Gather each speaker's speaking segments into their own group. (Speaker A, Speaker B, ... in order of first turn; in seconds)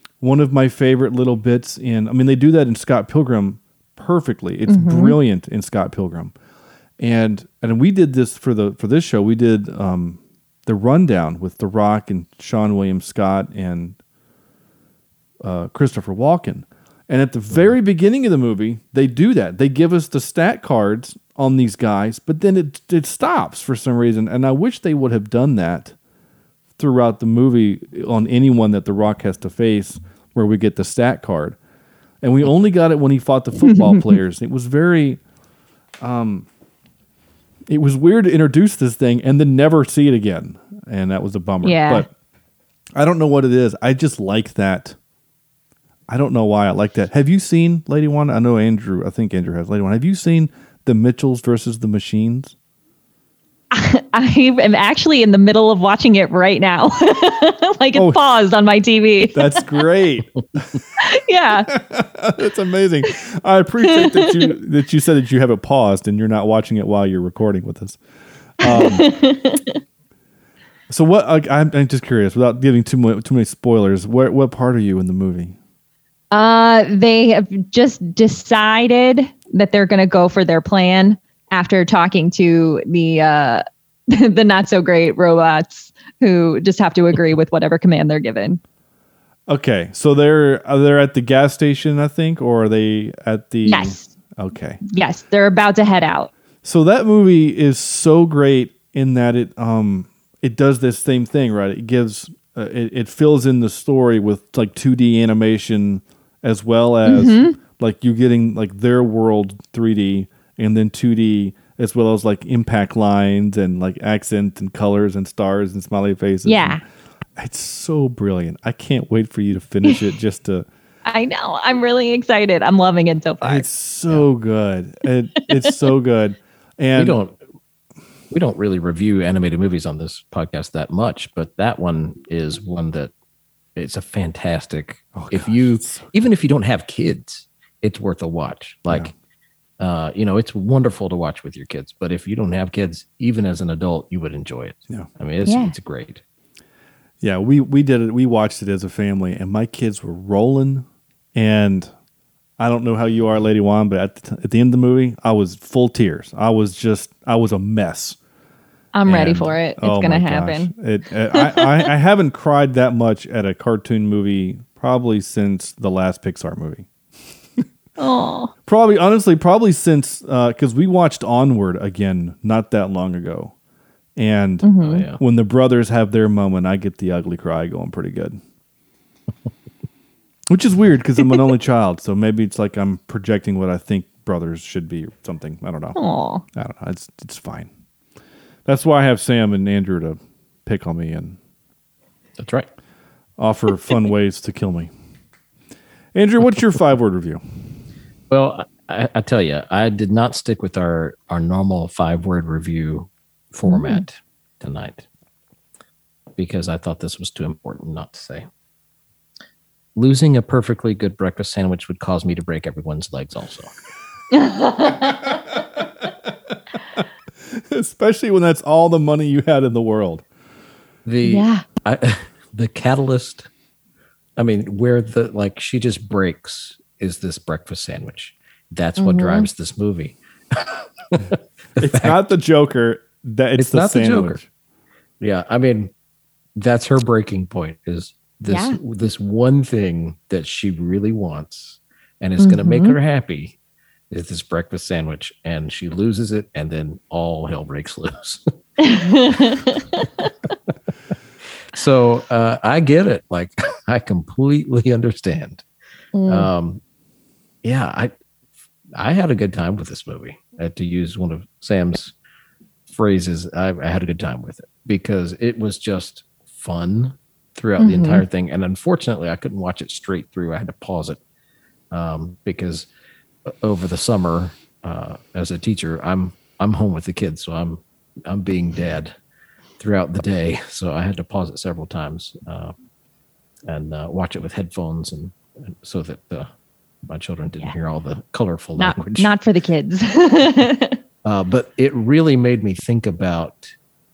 Speaker A: 0.2-6.3, 7.0-14.0, 15.4-25.9, 26.8-31.6, 32.2-35.2, 36.0-36.5, 37.7-42.1, 43.0-45.0, 46.1-52.5, 57.9-58.2, 59.3-60.8, 61.7-68.0, 68.6-69.1, 70.9-75.5, 89.5-94.8, 96.6-116.8, 117.4-120.7, 123.4-127.2, 135.1-136.1, 147.2-151.9, 152.6-158.2, 159.1-166.9, 168.7-173.5, 174.2-178.4, 180.5-186.0, 186.5-187.7, 188.7-191.4, 193.4-194.9, 196.1-197.4, 216.9-220.2, 231.8-234.4
Speaker B: 4.7-5.2, 33.6-34.1, 41.6-42.0, 53.7-59.8, 61.0-61.7, 63.9-64.5, 68.6-69.7, 76.3-88.6, 93.6-94.1, 94.9-96.3, 107.0-107.6, 116.4-116.8, 121.0-123.7, 145.4-145.7, 158.9-160.7, 161.3-161.9, 168.0-168.5, 174.6-175.1, 185.9-186.4, 203.7-204.0, 214.3-215.3, 221.2-221.6, 229.0-229.5, 238.4-238.8, 242.4-242.9, 248.8-250.3, 256.1-256.5, 267.8-268.2, 288.8-291.0
Speaker C: 127.0-127.3, 128.3-133.1, 133.8-139.1, 139.8-146.2, 174.8-175.2, 192.4-192.7, 198.3-205.1, 206.4-208.4, 209.9-213.7, 221.1-223.5, 224.4-232.1, 233.6-234.4, 235.2-235.9, 236.6-243.6, 244.1-248.4, 251.7-255.6, 256.3-256.8, 257.6-258.1, 258.9-262.1, 262.9-271.2, 271.9-272.9, 273.4-279.1, 279.8-282.7, 283.7-286.5, 287.1-289.3, 291.2-293.7